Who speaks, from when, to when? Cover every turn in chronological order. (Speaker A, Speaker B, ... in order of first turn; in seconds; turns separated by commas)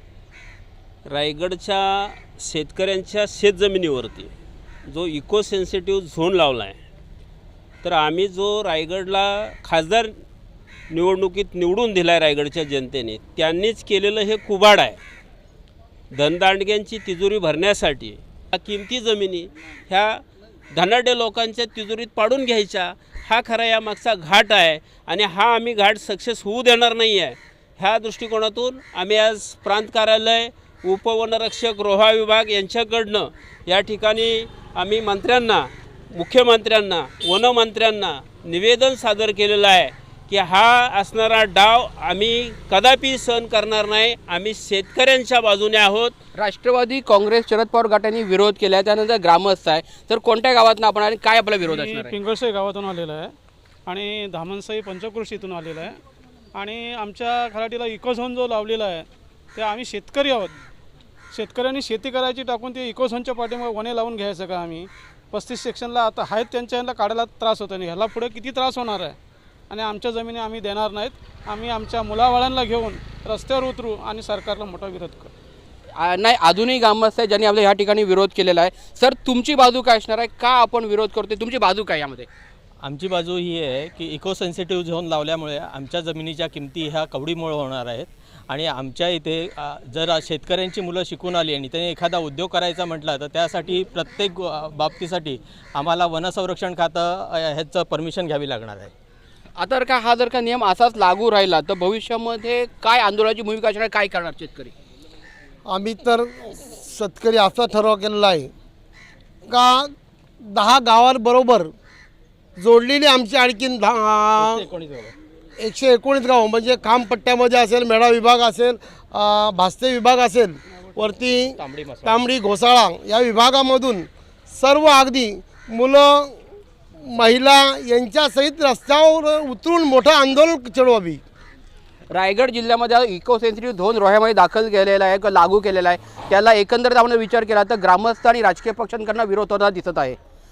Speaker A: 1.1-4.3, Speaker A: 4.9-6.8, Speaker A: 7.8-10.1, Speaker A: 10.9-15.0, Speaker A: 16.1-20.2, Speaker A: 20.7-46.1, Speaker B: 46.4-52.1, Speaker C: 51.6-53.3, Speaker C: 53.9-56.0, Speaker C: 56.5-60.5, Speaker C: 61.3-69.2, Speaker C: 69.7-75.3, Speaker B: 76.0-82.3, Speaker D: 82.8-98.9, Speaker B: 99.6-104.7, Speaker E: 105.7-108.5, Speaker E: 109.5-111.7, Speaker E: 112.6-114.7, Speaker D: 114.4-115.1, Speaker E: 115.6-126.4, Speaker D: 121.6-122.2, Speaker E: 127.0-131.2, Speaker B: 132.1-140.2